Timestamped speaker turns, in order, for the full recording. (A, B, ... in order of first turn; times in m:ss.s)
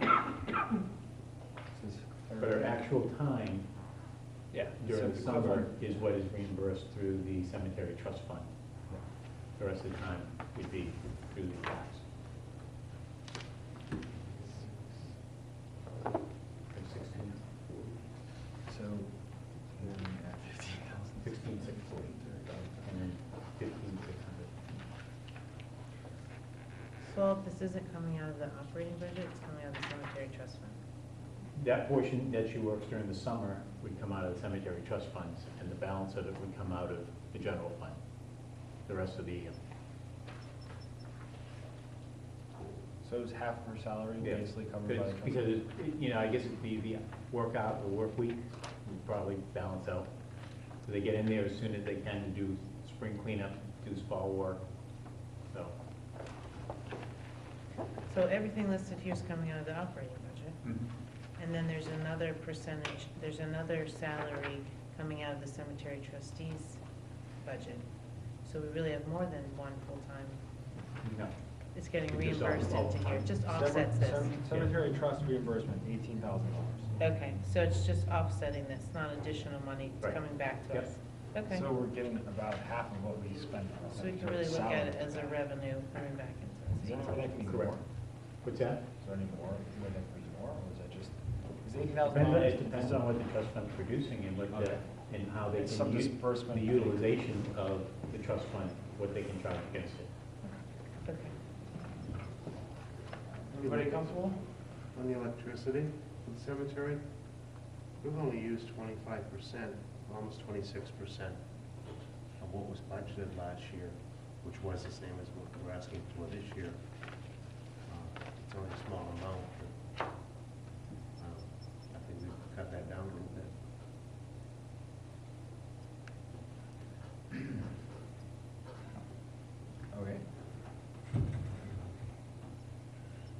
0:01.7-0:02.8 A
0:02.4-0:03.7 B
0:04.5-0:05.9 A
0:04.8-0:08.5 B
0:09.5-0:12.0 B
0:16.7-0:17.6 B
0:18.6-0:22.9 A
0:21.2-0:24.5 B
0:27.0-0:30.8 C
0:31.5-0:38.0 B
0:38.8-0:39.6 B
0:43.0-0:45.5 A
0:44.2-0:50.1 B
0:50.8-0:54.6 B
0:55.5-0:55.7 B
0:58.1-1:00.6 C
1:01.4-1:06.8 C
1:07.4-1:07.8 C
1:08.4-1:10.4 C
1:11.0-1:11.3 B
1:11.7-1:14.4 C
1:12.0-1:13.3 B
1:13.5-1:17.1 A
1:17.0-1:21.6 C
1:20.0-1:20.9 B
1:21.5-1:25.4 A
1:23.9-1:27.4 C
1:26.8-1:27.8 A
1:27.4-1:28.8 B
1:29.0-1:33.1 A
1:32.0-1:40.1 B
1:34.5-1:34.8 A
1:35.4-1:37.1 A
1:40.4-1:41.3 C
1:43.5-1:44.4 A
1:43.6-1:44.0 D
1:44.9-1:47.1 D
1:48.0-1:59.8 D
2:01.2-2:03.6 D
2:09.9-2:10.3 A